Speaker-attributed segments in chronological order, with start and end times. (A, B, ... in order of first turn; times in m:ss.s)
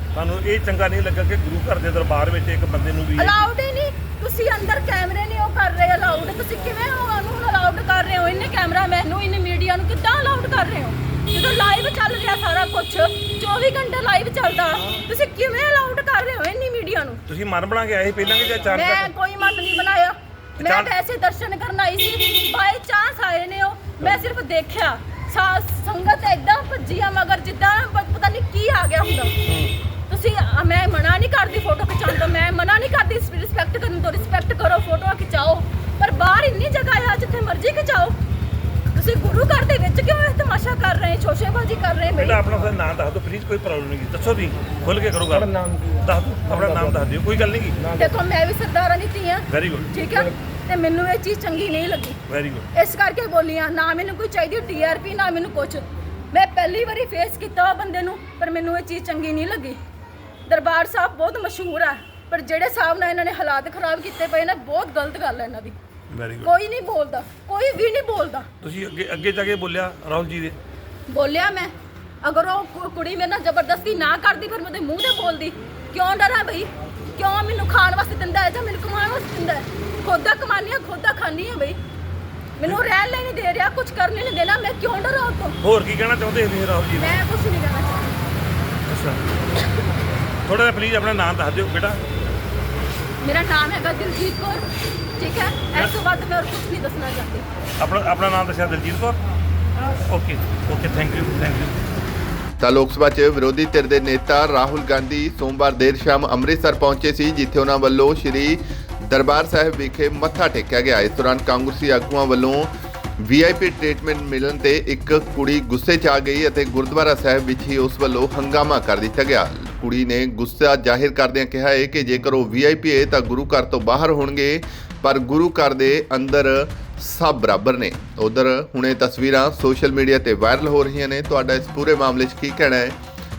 0:00.1-0:03.4 A
0:03.2-0:17.2 B
0:17.3-0:19.1 A
0:18.7-0:29.3 B
0:20.6-0:20.9 A
0:29.4-0:29.8 A
0:30.1-0:38.2 B
0:38.9-0:42.4 B
0:42.2-0:47.9 A
0:48.0-0:52.2 B
0:49.5-0:49.9 A
0:52.3-0:52.7 A
0:52.7-0:59.8 B
1:00.5-1:05.8 B
1:06.1-1:06.5 A
1:06.4-1:08.5 B
1:08.6-1:10.6 A
1:11.1-1:21.8 B
1:22.6-1:25.6 B
1:25.6-1:27.2 A
1:27.0-1:28.1 B
1:28.9-1:29.2 A
1:30.4-1:32.0 A
1:33.2-1:34.6 B
1:35.2-1:37.4 B
1:37.8-1:39.2 A
1:40.1-1:41.8 A
1:42.6-2:13.0 C